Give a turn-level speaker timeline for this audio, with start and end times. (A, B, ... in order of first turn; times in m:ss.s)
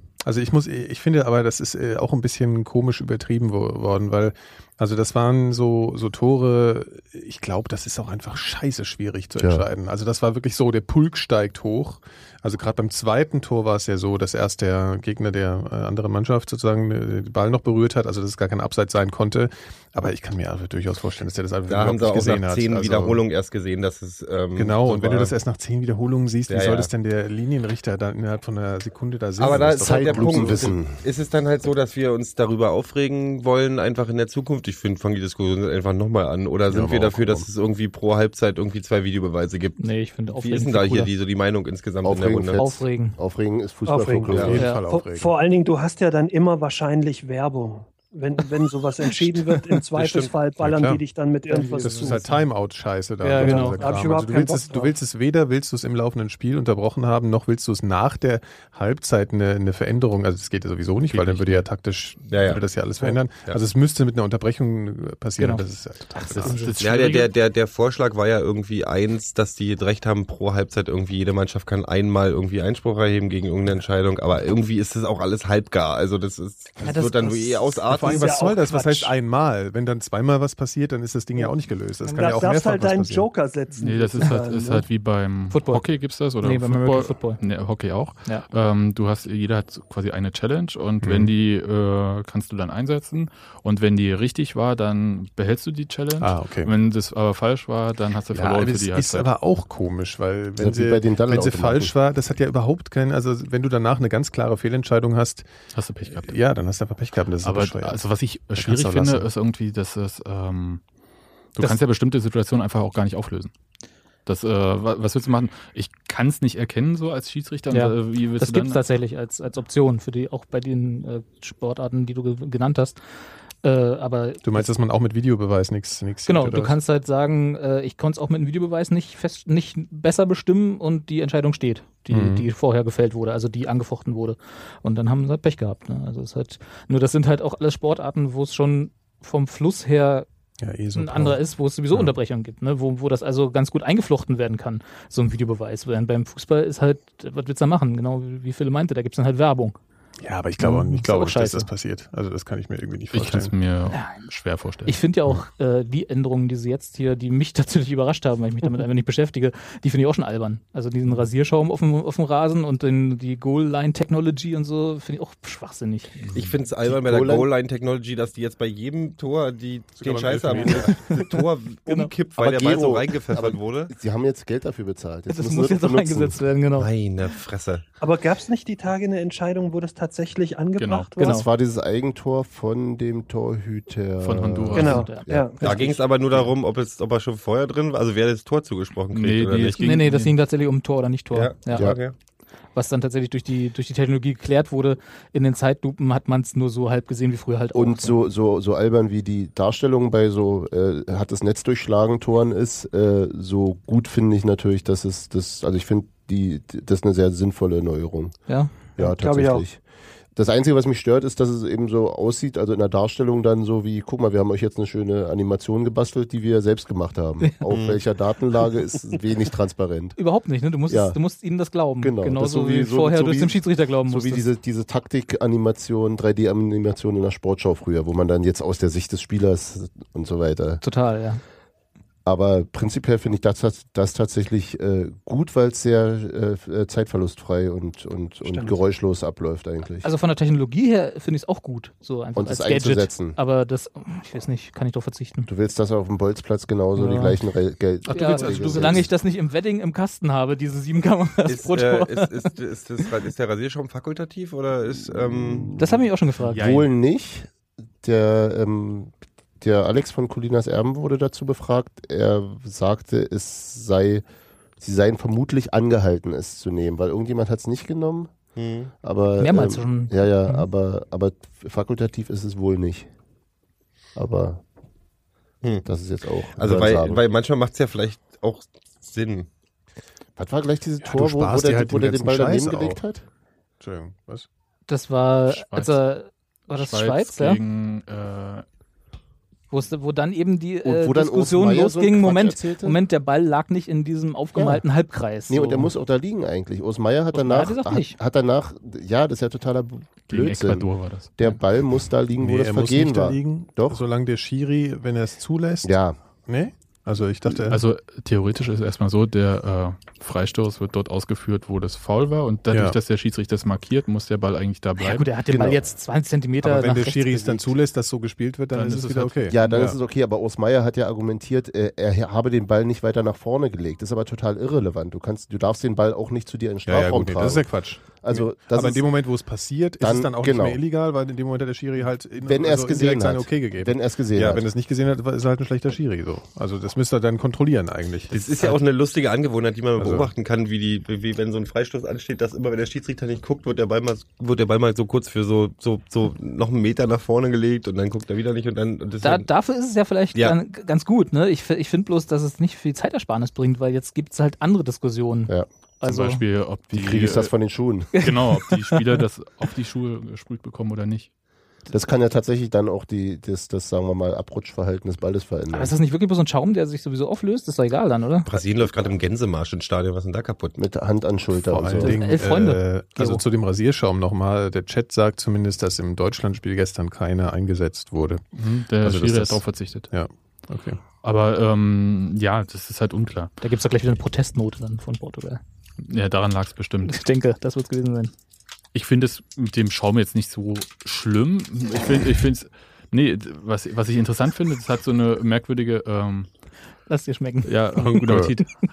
0:00.2-0:23.2 A
0:09.4-0:09.6 B
0:21.7-0:25.3 C
0:24.6-0:30.7 A
0:26.5-0:26.9 C
0:29.4-0:42.6 C
0:29.5-0:31.0 B
0:36.7-0:37.5 A
0:39.8-0:41.1 D
0:42.0-0:44.6 B
0:42.6-0:43.2 D
0:43.9-0:52.4 E
0:44.3-0:44.6 C
0:44.3-0:45.3 A
0:44.6-0:44.8 D
0:50.0-0:51.0 A
0:51.5-0:52.4 D
0:51.8-1:06.6 A
0:53.2-0:53.8 D
0:53.4-0:54.9 E
1:01.1-1:01.7 F
1:02.3-1:02.6 C
1:05.4-1:06.8 D
1:06.3-1:07.3 F
1:06.8-1:18.4 C
1:16.8-1:17.8 D
1:17.9-1:23.3 A
1:18.1-1:19.1 E
1:22.1-1:24.9 E
1:23.8-1:39.3 F
1:25.5-1:25.9 D
1:26.4-1:27.4 D
1:31.0-1:31.3 A
1:36.2-1:36.7 A
1:38.3-1:45.5 A
1:40.6-1:41.9 B
1:45.7-1:46.4 F
1:46.1-1:48.0 A
1:47.4-1:50.8 F
1:48.5-1:49.3 A
1:51.6-1:53.5 F
1:54.3-1:58.8 F
1:57.7-2:03.0 D
2:03.6-2:04.7 D
2:04.4-2:06.8 A
2:06.3-2:20.3 D
2:12.1-2:12.5 A
2:20.6-2:21.4 A
2:21.0-2:29.8 D
2:30.2-2:33.5 A
2:30.6-2:31.7 D
2:33.1-2:35.0 F
2:33.9-2:34.2 D
2:34.9-2:46.2 D
2:46.3-2:53.9 C
2:46.9-2:47.5 B
2:50.0-2:51.0 A
2:51.1-2:51.3 D
2:51.9-2:52.1 D
2:52.4-2:56.4 B
2:55.3-2:56.9 D
2:56.8-2:57.9 C
2:58.0-3:01.5 E
3:00.8-3:01.1 F
3:01.2-3:01.5 D
3:01.2-3:05.5 B
3:04.2-3:05.1 F
3:04.7-3:05.6 E
3:04.9-3:06.0 D
3:05.6-3:09.8 C
3:09.1-3:10.3 F
3:09.8-3:11.9 D
3:11.3-3:12.2 C
3:11.8-3:12.0 B
3:12.8-3:18.2 D
3:17.7-3:29.8 B
3:29.0-3:29.6 E
3:30.4-3:40.2 B
3:37.7-3:38.0 C
3:40.2-3:44.4 D
3:40.9-3:41.2 B
3:42.0-3:50.8 B
3:50.8-3:51.4 D
3:52.2-4:00.1 B
3:58.4-3:58.8 E
4:00.0-4:05.5 D
4:02.4-4:03.4 B
4:05.5-4:09.1 B
4:07.0-4:07.4 D
4:08.1-4:09.1 A
4:08.1-4:12.5 D
4:11.5-4:15.7 C
4:15.0-4:17.5 B
4:15.8-4:16.6 D
4:16.5-4:16.9 F
4:18.0-4:24.2 B
4:24.8-4:28.4 B
4:28.6-4:28.9 C
4:29.0-4:33.1 B
4:29.4-4:30.7 D
4:34.2-4:34.6 B
4:35.8-4:37.2 B
4:36.6-4:39.5 C
4:40.4-4:43.2 B
4:41.0-4:43.0 A
4:43.8-4:44.5 A
4:44.9-4:47.6 D
4:45.5-4:46.0 F
4:46.8-4:48.6 F
4:49.7-4:55.9 D
4:50.8-4:53.0 B
4:54.6-4:54.8 B
4:55.5-5:04.0 B
4:57.3-4:58.2 D
5:00.3-5:01.3 F
5:02.4-5:05.9 A
5:05.8-5:06.2 B
5:06.5-5:07.8 A
5:07.5-5:15.3 F
5:12.7-5:13.0 A
5:15.0-5:17.7 D
5:15.5-5:15.9 B
5:16.6-5:20.0 A
5:18.7-5:19.7 F
5:19.5-5:27.7 B
5:26.9-5:38.8 A
5:28.2-5:29.1 B
5:30.0-5:30.8 B
5:32.4-5:34.7 B
5:38.3-5:49.5 C
5:40.0-5:40.3 A
5:49.2-5:56.4 D
5:56.1-5:57.5 F
5:56.9-5:58.1 B
5:58.1-5:59.2 D
5:58.2-6:01.3 F
6:01.9-6:06.0 B
6:05.7-6:08.5 D
6:08.5-6:10.8 C
6:10.8-6:12.2 B
6:11.5-6:18.4 A
6:12.0-6:13.4 D
6:18.6-6:20.1 F
6:19.0-6:21.0 A
6:21.2-6:23.5 F
6:23.6-6:25.6 D
6:26.0-6:27.2 F
6:27.0-6:28.3 D
6:28.9-6:36.5 F
6:37.1-6:38.6 D
6:37.6-6:38.7 F
6:38.0-6:38.6 A